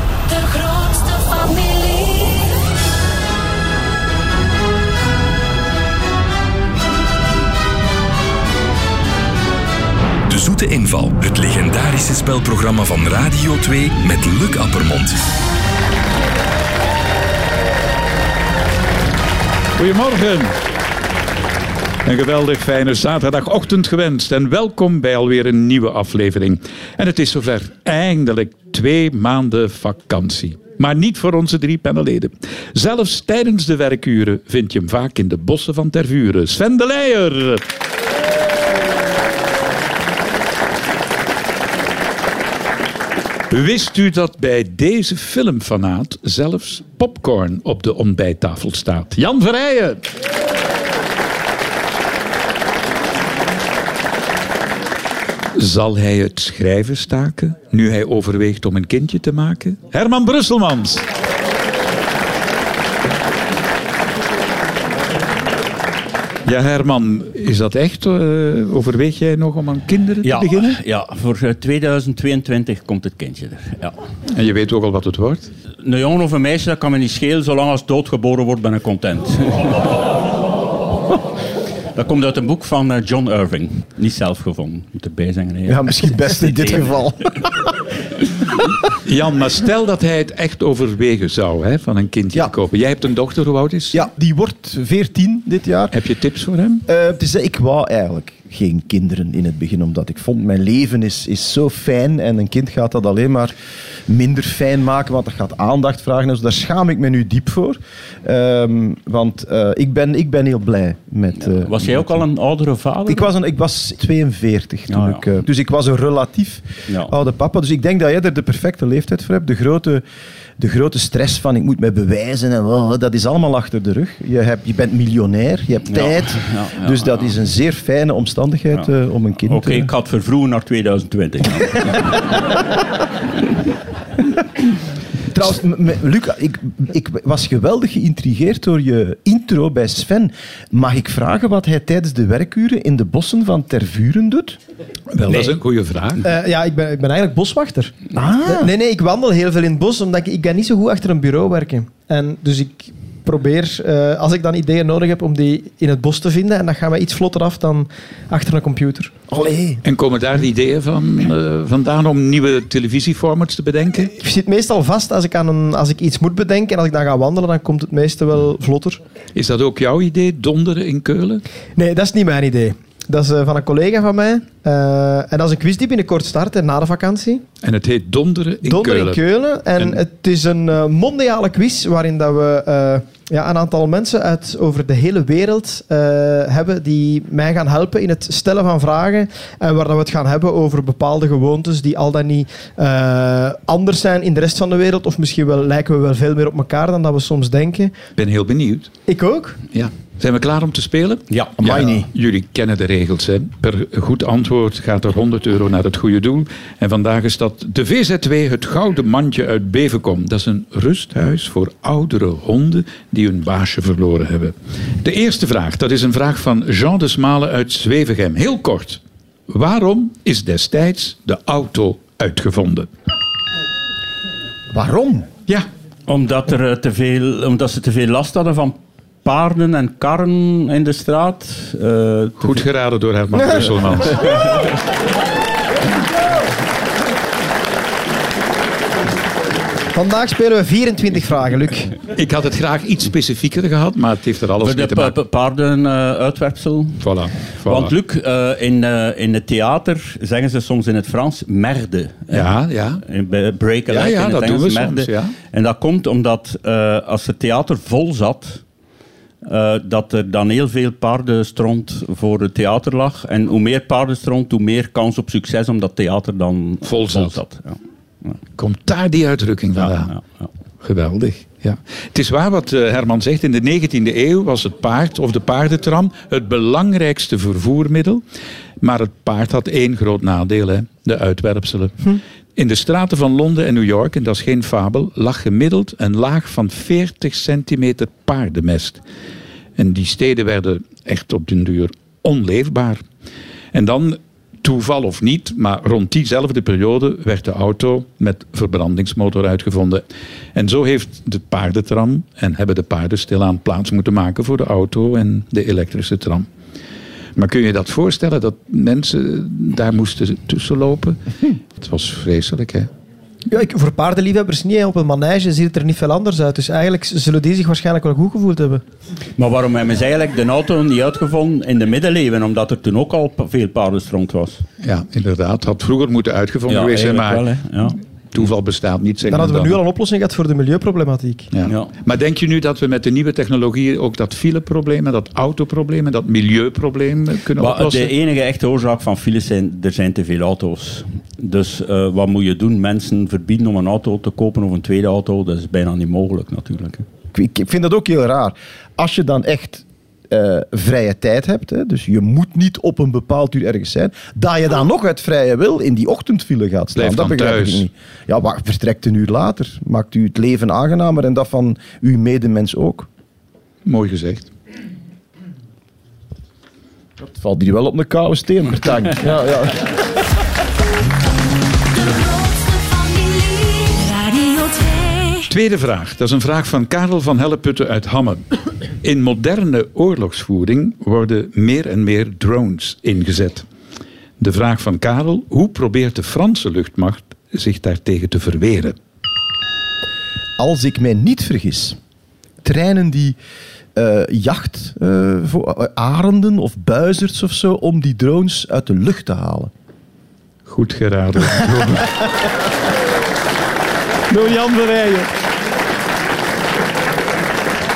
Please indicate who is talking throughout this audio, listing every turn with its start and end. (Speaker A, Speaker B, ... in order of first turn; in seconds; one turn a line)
Speaker A: 0.4-2.2
Speaker B: 10.3-15.2
Speaker C: 19.8-20.5
Speaker C: 22.0-37.6
Speaker C: 43.5-50.0
Speaker C: 55.5-61.0
Speaker C: 66.5-70.8
Speaker D: 70.2-74.0
Speaker C: 74.3-75.5
Speaker D: 75.8-80.0
Speaker D: 81.9-86.8
Speaker E: 85.7-87.7
Speaker C: 89.0-94.0
Speaker E: 93.9-95.9
Speaker C: 95.9-96.8
Speaker E: 96.9-103.5
Speaker E: 104.1-112.2
Speaker D: 111.4-113.3
Speaker E: 113.1-120.0
Speaker D: 114.9-115.2
Speaker E: 120.6-129.9
Speaker D: 125.9-127.3
Speaker D: 129.4-132.2
Speaker E: 135.3-144.6
Speaker C: 145.1-146.2
Speaker F: 145.3-145.5
Speaker F: 146.2-159.1
Speaker E: 148.1-148.7
Speaker E: 159.3-159.8
Speaker C: 159.8-164.1
Speaker F: 164.2-169.0
Speaker C: 169.3-171.4
Speaker F: 171.8-177.4
Speaker C: 177.6-179.2
Speaker F: 178.6-197.9
Speaker C: 198.2-198.9
Speaker F: 199.1-199.6
Speaker C: 199.7-222.9
Speaker D: 201.3-201.8
Speaker E: 201.6-202.1
Speaker E: 224.7-225.3
Speaker D: 226.1-232.6
Speaker C: 232.4-234.4
Speaker D: 234.2-234.5
Speaker F: 239.9-241.9
Speaker C: 242.1-245.2
Speaker D: 244.6-247.1
Speaker C: 247.0-247.9
Speaker D: 247.6-252.5
Speaker C: 252.3-253.0
Speaker D: 253.0-258.6
Speaker C: 253.9-255.3
Speaker D: 259.4-268.4
Speaker C: 266.8-267.4
Speaker C: 268.6-270.1
Speaker D: 269.8-270.5
Speaker C: 270.8-278.2
Speaker C: 278.8-289.0
Speaker C: 289.8-293.0
Speaker C: 293.7-300.0
Speaker C: 300.5-306.5
Speaker C: 307.4-312.9
Speaker F: 313.5-318.8
Speaker D: 319.4-324.6
Speaker C: 324.8-327.5
Speaker D: 326.7-328.0
Speaker C: 328.3-329.8
Speaker F: 329.3-331.5
Speaker C: 331.5-338.1
Speaker D: 337.6-347.0
Speaker E: 347.3-363.1
Speaker C: 356.9-357.9
Speaker C: 363.8-364.5
Speaker E: 367.2-369.9
Speaker A: 372.0-375.4
Speaker C: 375.5-378.4
Speaker C: 379.0-383.6
Speaker C: 384.4-388.9
Speaker E: 390.6-392.0
Speaker E: 392.6-393.4
Speaker E: 393.9-399.7
Speaker C: 400.7-402.2